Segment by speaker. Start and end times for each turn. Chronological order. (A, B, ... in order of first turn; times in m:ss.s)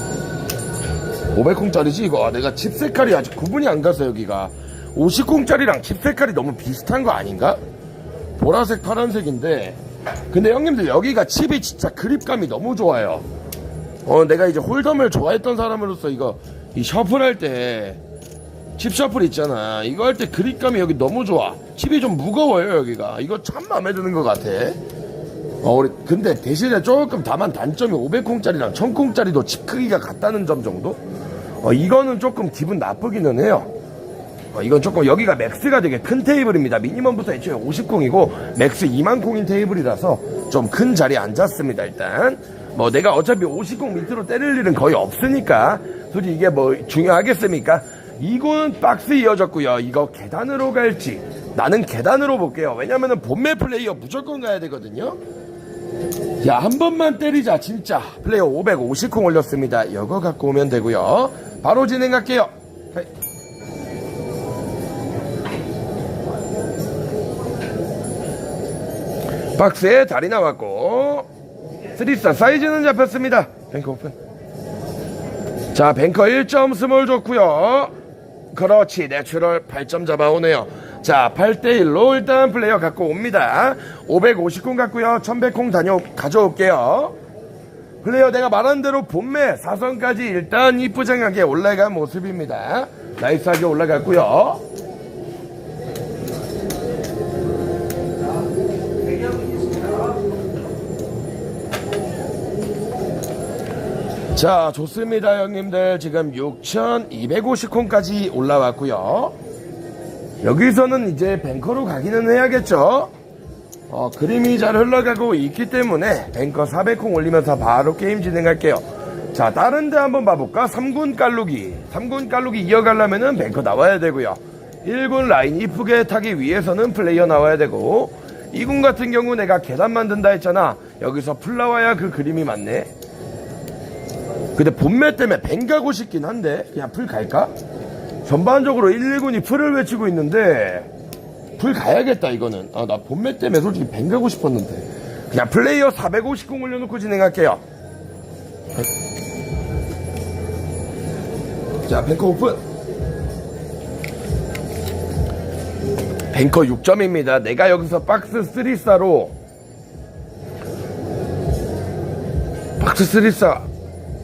0:01.3-0:07.6 A
0:08.4-0:09.8 A
0:10.3-0:13.2 A
0:14.0-0:18.0 A
0:18.8-0:24.8 A
0:25.6-0:31.0 A
0:31.6-0:33.7 A
0:34.5-0:55.2 A
0:56.4-1:03.1 A
1:09.6-1:11.3 A
1:11.9-1:14.2 A
1:15.7-1:17.9 A
1:18.5-1:27.1 A
1:28.0-1:34.6 A
1:44.3-1:49.3 A
1:50.4-1:53.1 A
1:53.9-2:12.9 A
2:14.6-2:17.5 A
2:18.2-2:20.9 A
2:21.6-2:27.6 A
2:31.9-2:32.6 A
2:36.3-2:39.3 A
2:42.8-2:43.7 A